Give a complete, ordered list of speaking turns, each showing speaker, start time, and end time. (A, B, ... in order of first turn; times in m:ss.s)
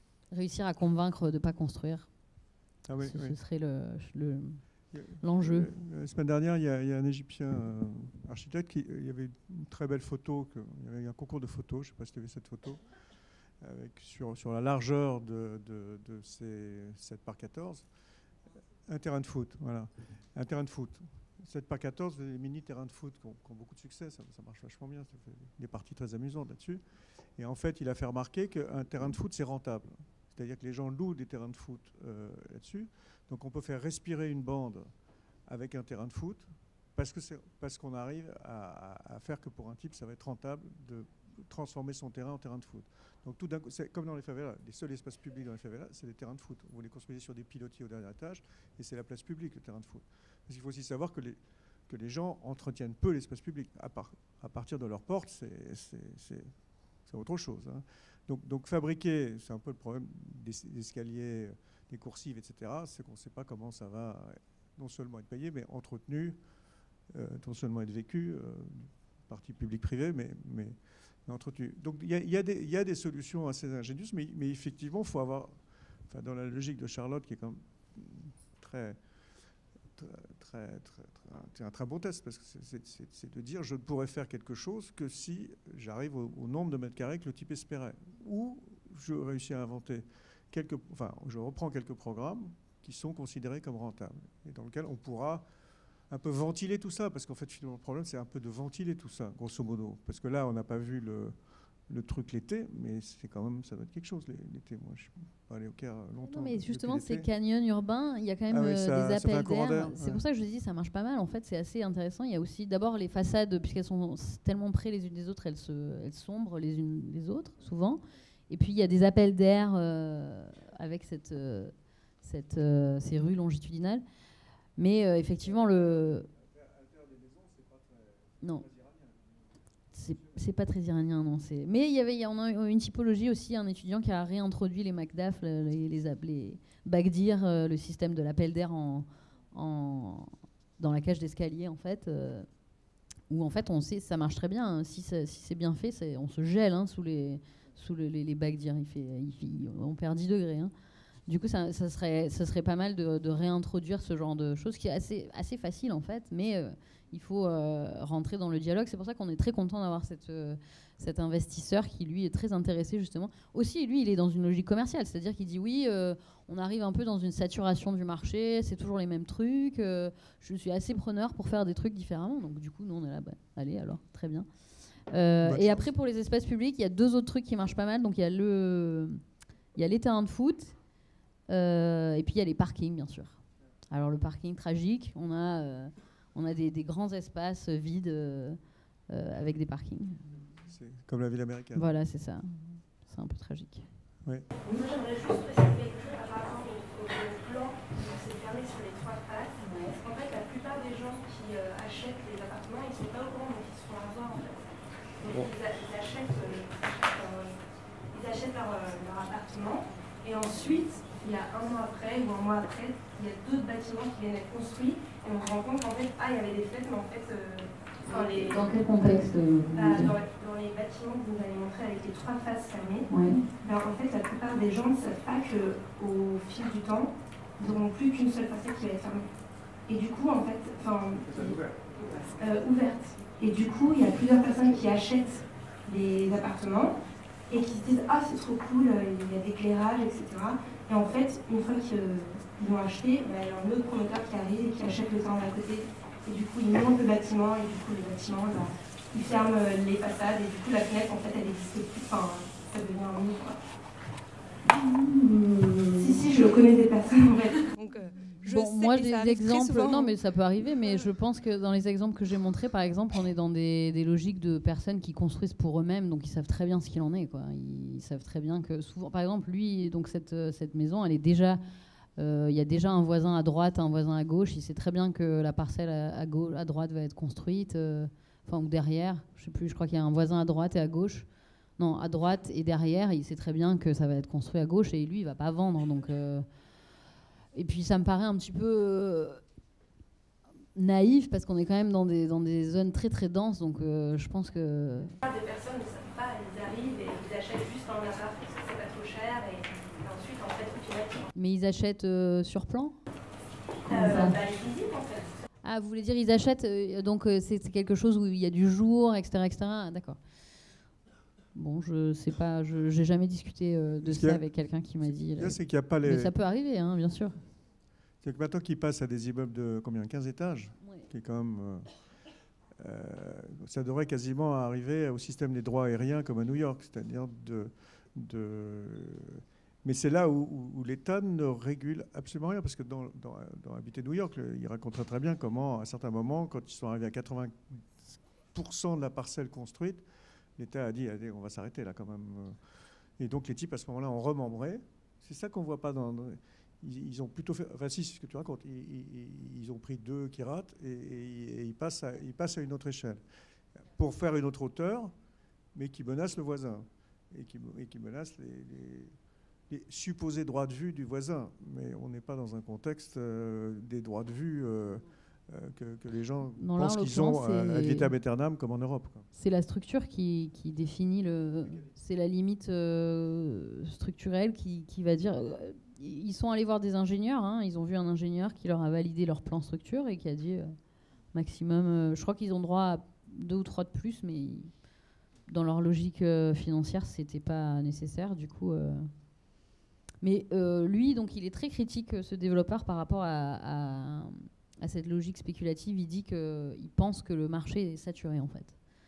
0:00.3-0:02.1 A
0:02.8-0:03.4 B
0:03.0-0:04.6 A
0:04.9-0:12.8 B
0:05.2-0:05.7 A
0:13.6-0:17.9 B
0:18.9-0:26.8 B
0:27.4-0:34.9 B
0:35.5-0:56.5 B
0:57.1-1:06.4 B
1:07.1-1:15.5 B
1:16.1-1:19.0 B
1:20.0-1:35.4 B
1:36.1-1:41.3 B
1:41.9-1:47.3 B
1:46.2-2:04.0 A
1:48.5-1:50.2 B
2:04.8-2:06.3 A
2:06.5-2:09.3 B
2:08.4-2:08.7 A
2:09.9-2:22.5 A
2:23.3-2:30.7 A
2:31.3-2:54.5 A
2:55.1-2:59.2 A
2:55.4-2:55.9 B
2:59.7-3:00.8 A
3:01.5-3:08.6 A
3:09.1-3:10.3 A
3:10.6-3:11.9 B
3:11.7-3:13.9 A
3:14.6-3:24.7 C
3:19.6-3:19.9 A
3:25.2-3:27.5 C
3:28.1-3:38.7 C
3:38.1-3:40.1 A
3:39.7-3:43.1 C
3:43.1-3:43.4 A
3:43.6-3:49.2 C
3:49.9-3:51.6 C
3:51.1-3:51.9 B
3:52.2-3:56.9 C
3:57.5-4:13.6 C
4:14.7-4:16.2 A
4:16.0-4:20.1 C
4:18.4-4:31.6 A
4:32.2-4:41.3 A
4:41.8-4:46.4 A
4:47.5-4:49.4 A
4:50.7-4:55.1 A
4:55.2-5:01.3 C
5:01.3-5:02.9 A
5:03.9-5:04.4 A
5:03.9-5:05.4 C
5:05.6-5:10.2 A
5:11.5-5:17.3 A
5:14.0-5:14.4 B
5:15.0-5:16.3 B
5:18.2-5:21.9 B
5:22.8-5:40.0 B
5:40.6-5:42.6 B
5:43.2-5:53.2 B
5:53.9-5:55.1 B
5:55.7-5:59.1 B
5:59.7-6:09.2 B
6:06.6-6:08.1 A
6:09.3-6:20.7 A
6:21.3-6:24.7 A
6:25.5-6:29.1 A
6:30.2-6:38.8 A